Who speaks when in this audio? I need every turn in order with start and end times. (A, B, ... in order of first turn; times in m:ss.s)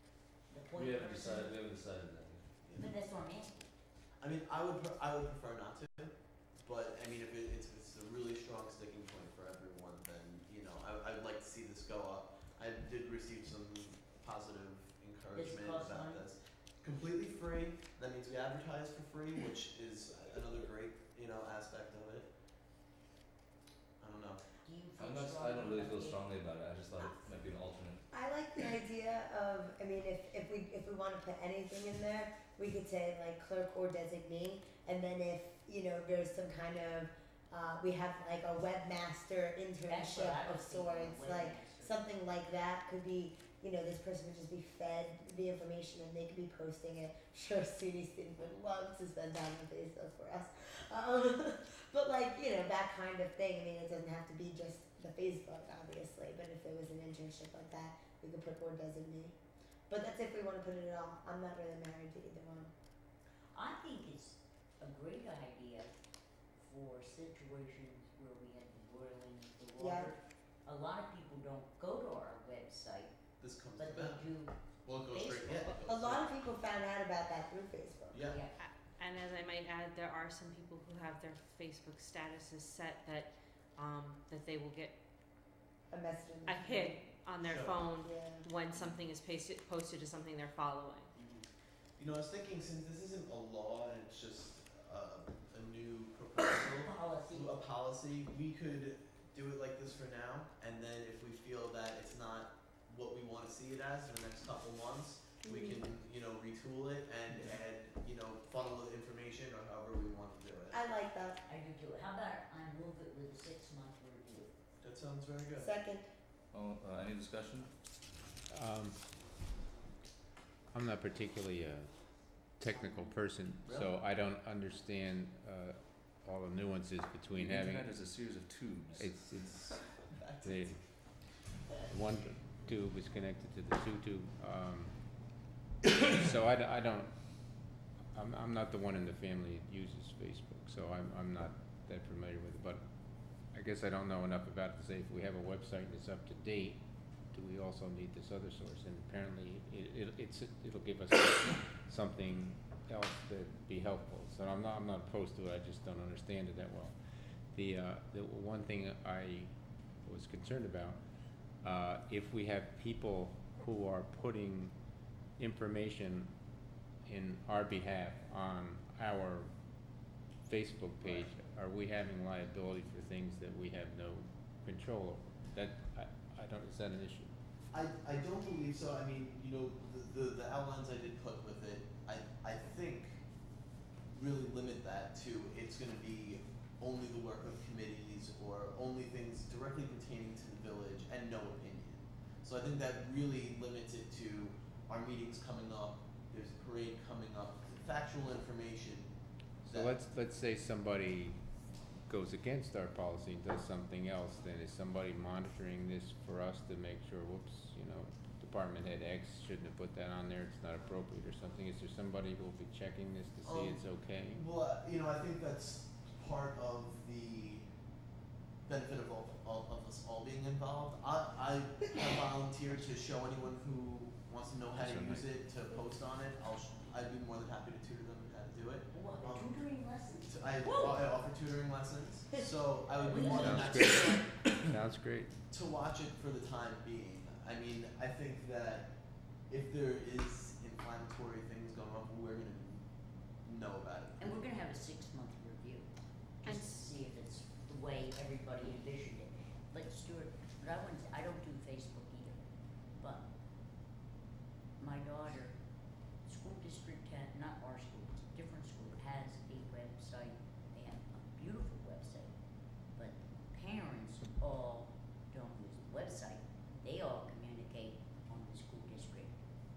0:00.5-0:01.5 A
0:00.7-0:02.5 B
0:02.6-0:02.9 C
0:02.8-0:03.6 A
0:04.2-0:22.3 C
0:15.3-0:16.2 A
0:24.0-0:24.4 C
0:24.6-0:26.2 A
0:25.0-0:28.0 B
0:28.1-0:59.4 D
0:39.9-0:41.9 A
0:59.9-1:02.7 D
1:03.5-1:05.9 A
1:06.6-1:13.1 A
1:09.8-1:10.1 D
1:13.4-1:14.3 C
1:13.8-1:15.8 A
1:14.8-1:16.3 C
1:15.8-1:18.2 D
1:18.1-1:18.4 C
1:18.3-1:18.5 A
1:18.6-1:24.9 E
1:25.9-1:27.0 D
1:26.5-1:31.1 E
1:27.4-1:27.9 C
1:28.0-1:28.5 D
1:31.2-1:31.4 A
1:32.0-1:50.8 C
1:36.7-1:37.6 A
1:45.4-1:45.9 D
1:50.7-1:51.4 D
1:51.5-1:54.5 A
1:54.8-1:55.7 C
1:55.6-1:56.0 D
1:56.5-1:57.7 B
1:58.5-1:59.0 F
2:00.7-2:01.9 F
2:02.6-2:08.0 F
2:02.6-2:03.2 A
2:03.6-2:03.9 C
2:07.3-2:09.3 B
2:08.9-2:09.6 F
2:09.5-2:10.7 C
2:10.4-2:10.8 F
2:11.9-2:14.9 F
2:15.9-2:17.1 F
2:18.1-2:22.8 F
2:23.5-2:26.8 F
2:27.3-2:36.9 F
2:37.5-2:39.5 F
2:40.0-2:41.0 F
2:41.6-2:44.7 F
2:45.4-2:46.3 F
2:47.1-2:49.5 F
2:50.5-2:57.3 F
2:51.0-2:51.3 C
2:57.7-3:03.2 C
3:04.1-3:19.1 C
3:19.6-3:20.0 C
3:19.7-3:21.4 F
3:22.1-3:34.4 F
3:33.4-3:37.6 C
3:38.6-3:49.6 C
3:44.8-3:45.2 B
3:48.9-3:51.0 A
3:50.2-3:54.3 C
3:53.0-3:53.9 A
3:53.3-3:55.3 F
3:55.5-3:58.9 C
3:59.5-4:02.8 C
4:03.4-4:04.4 C
4:04.2-4:12.4 A
4:06.4-4:06.9 E
4:13.0-4:13.2 A
4:14.8-4:15.5 A
4:16.2-4:22.3 A
4:22.9-4:29.4 A